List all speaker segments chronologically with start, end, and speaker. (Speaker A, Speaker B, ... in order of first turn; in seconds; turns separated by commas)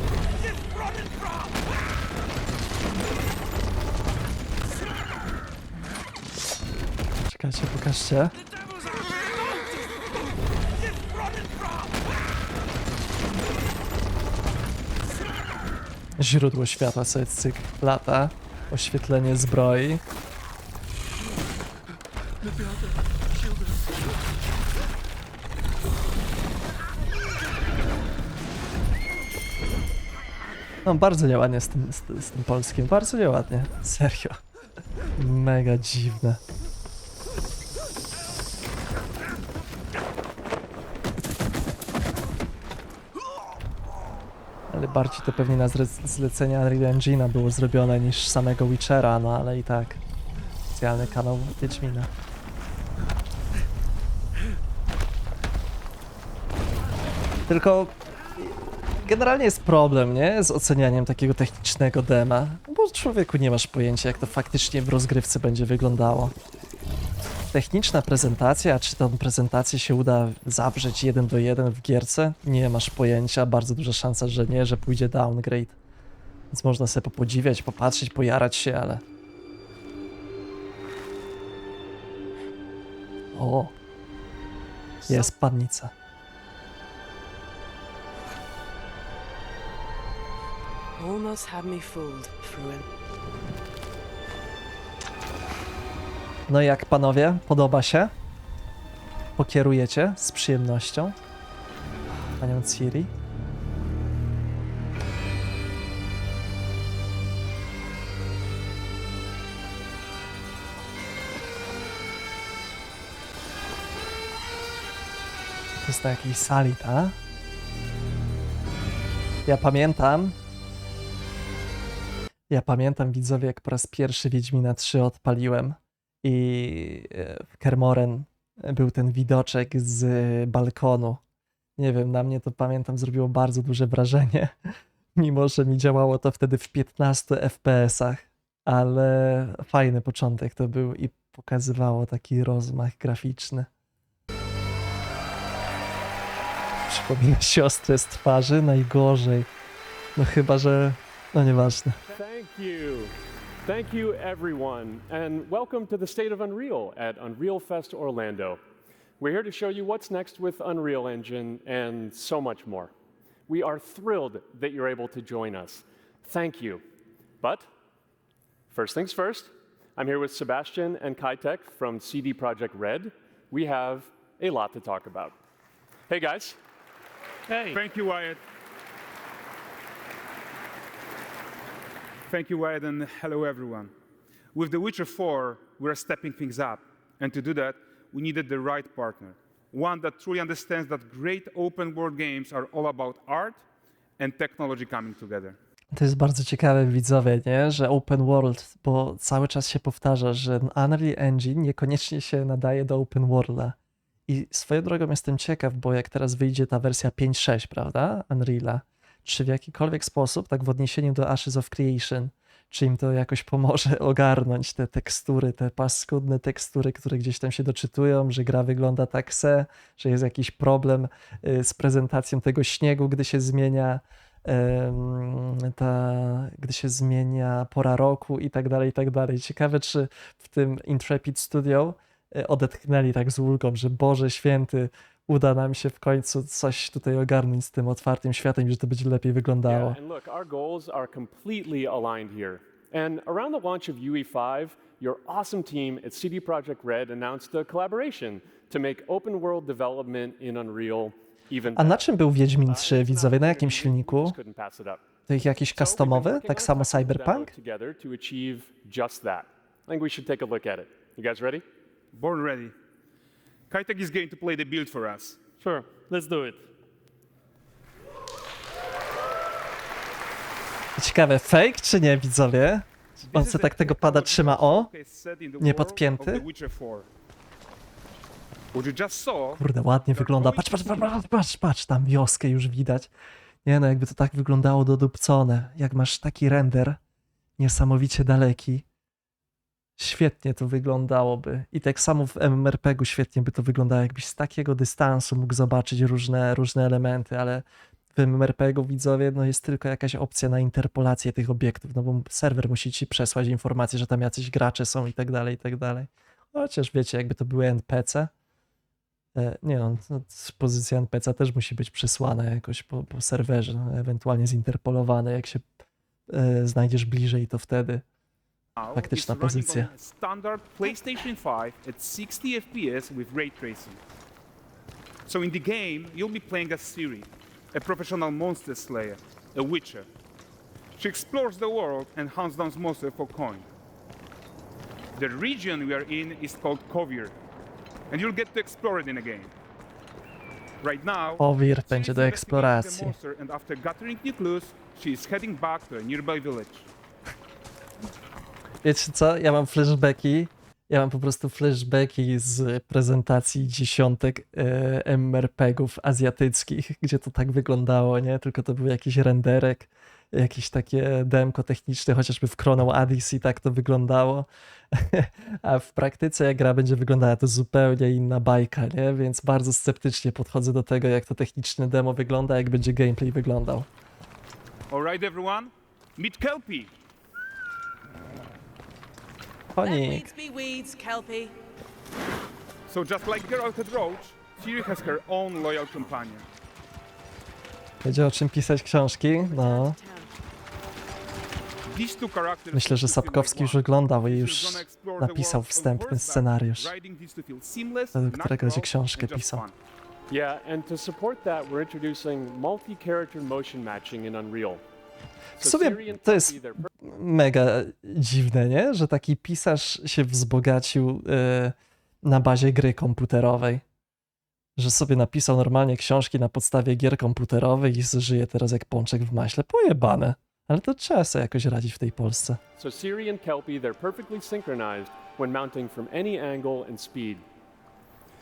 Speaker A: 0.4-1.6, Speaker B: 7.3-8.3, Speaker A: 8.4-9.9, Speaker A: 10.8-12.1, Speaker B: 16.2-20.0, Speaker B: 30.9-34.4, Speaker B: 35.2-36.4, Speaker B: 44.7-50.0, Speaker B: 50.7-52.1, Speaker B: 57.5-66.3, Speaker B: 67.5-75.8, Speaker B: 76.5-79.0, Speaker B: 83.3-83.7, Speaker C: 85.0-85.3, Speaker B: 85.1-85.9, Speaker C: 91.0-92.8, Speaker B: 96.5-98.1, Speaker B: 99.4-101.2, Speaker B: 102.4-103.1, Speaker B: 115.8-117.2, Speaker B: 119.5-120.4, Speaker B: 122.5-131.2, Speaker B: 131.8-143.7, Speaker B: 146.9-149.5, Speaker B: 150.2-152.0, Speaker D: 152.1-158.6, Speaker D: 159.2-162.9, Speaker D: 163.5-166.8, Speaker D: 167.4-167.7, Speaker D: 168.7-175.4, Speaker D: 176.1-176.6, Speaker E: 177.7-178.4, Speaker E: 182.3-183.9, Speaker E: 184.5-193.6, Speaker E: 194.2-195.6, Speaker B: 195.9-203.8, Speaker B: 204.3-240.0, Speaker D: 239.6-255.1, Speaker B: 251.8-254.4, Speaker B: 255.3-257.5, Speaker D: 255.7-261.6, Speaker E: 262.1-262.7, Speaker E: 263.7-265.4, Speaker D: 265.6-266.5, Speaker B: 271.0-274.9, Speaker E: 273.2-277.1, Speaker B: 275.6-276.4, Speaker E: 278.7-280.9, Speaker B: 279.6-283.1, Speaker B: 283.6-287.0, Speaker B: 287.6-288.9, Speaker B: 290.0-297.6, Speaker B: 298.2-308.3, Speaker B: 309.4-315.7, Speaker B: 316.3-318.0, Speaker E: 318.8-324.0, Speaker B: 318.9-319.9, Speaker E: 325.3-330.1, Speaker E: 331.0-333.7, Speaker E: 335.1-337.4, Speaker E: 338.1-339.5, Speaker E: 340.8-346.9, Speaker B: 341.4-343.1, Speaker B: 348.8-373.9, Speaker E: 374.9-376.9, Speaker B: 379.7-380.3, Speaker C: 379.8-381.6, Speaker E: 382.9-386.5, Speaker B: 388.0-390.0, Speaker C: 389.3-390.4, Speaker E: 391.9-399.8, Speaker B: 392.7-396.9, Speaker B: 398.1-399.6, Speaker D: 400.3-404.8, Speaker D: 405.6-406.9, Speaker B: 405.6-413.8, Speaker B: 414.8-422.6, Speaker D: 422.8-427.5